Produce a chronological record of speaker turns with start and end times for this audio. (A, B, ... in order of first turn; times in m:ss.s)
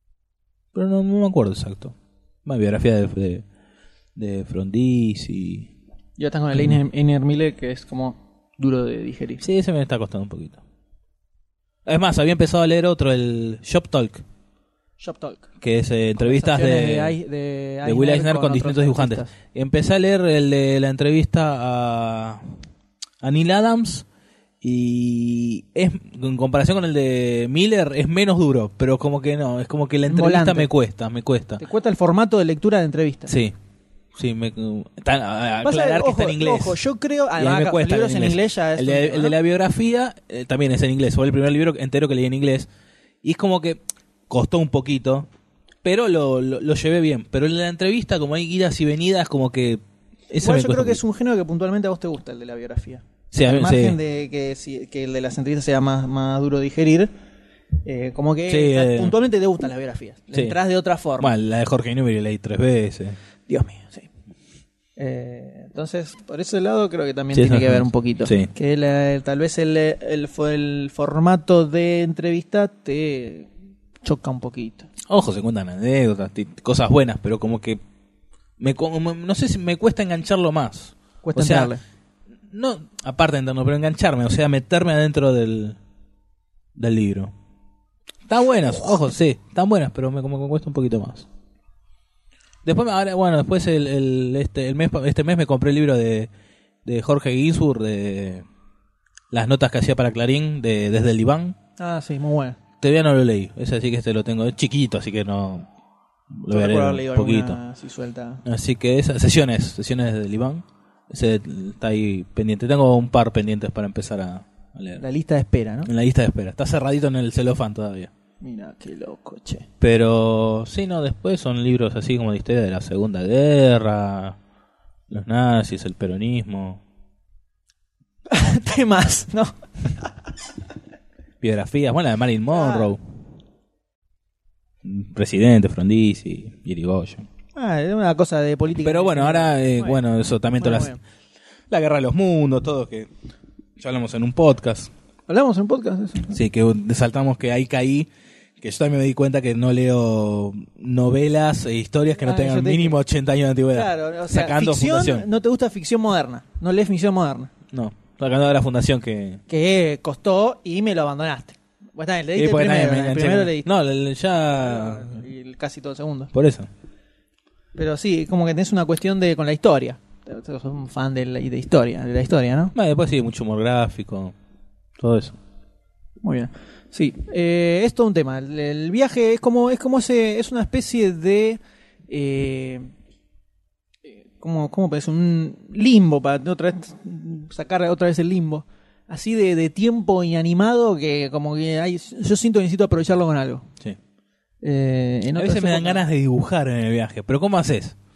0:00.7-0:03.4 A
0:04.2-0:05.7 A
0:06.2-0:09.4 B
0:09.4-0:10.6 A
0:11.9-0:14.2 A
0:15.0-0:15.5 B
0:15.6-0:17.2 A
0:16.2-0:19.3 B
0:17.8-0:22.4 A
0:23.2-0:24.1 A
0:24.6-0:31.6 A
0:30.1-0:30.7 B
0:31.6-0:33.4 B
0:33.3-0:33.6 A
0:34.1-0:36.8 A
0:35.6-0:39.4 B
0:37.4-0:42.7 A
0:43.2-0:45.3 A
0:45.8-0:51.0 A
0:50.4-0:57.1 B
0:53.3-0:54.0 A
0:57.8-1:01.3 B
0:58.5-0:59.2 A
1:01.2-1:03.2 A
1:03.5-1:04.1 B
1:05.0-1:13.5 B
1:07.3-1:08.5 A
1:14.0-1:14.9 B
1:15.1-1:17.8 A
1:18.6-1:21.7 A
1:21.2-1:21.8 B
1:22.5-1:25.8 A
1:26.8-1:27.3 A
1:28.3-1:31.3 A
1:32.6-1:36.3 A
1:36.8-1:38.5 A
1:39.3-1:41.6 A
1:41.8-1:42.6 B
1:42.8-1:45.7 A
1:46.4-1:47.6 A
1:46.5-1:48.4 B
1:48.4-1:55.0 A
1:55.0-1:55.9 B
1:55.9-1:58.1 A
1:58.4-1:59.7 B
1:59.8-2:04.4 A
2:05.1-2:06.8 A
2:08.3-2:10.1 B
2:11.4-2:13.0 A
2:12.5-2:12.9 B
2:14.8-2:17.3 A
2:17.6-2:20.0 B
2:18.8-2:20.9 A
2:20.6-2:21.0 B
2:21.7-2:23.1 A
2:23.8-2:24.9 A
2:25.3-2:26.4 B
2:26.3-2:28.1 A
2:28.6-2:35.3 A
2:32.2-2:33.0 B
2:33.7-2:37.5 B
2:37.7-2:39.4 A
2:39.5-2:43.7 B
2:42.4-2:45.2 A
2:44.6-2:46.3 B
2:46.3-2:46.7 A
2:47.8-2:52.7 B
2:52.8-2:54.4 A
2:55.0-2:55.4 A
2:56.2-3:02.9 B
3:04.1-3:13.7 B
3:14.6-3:16.0 B
3:15.4-3:18.0 A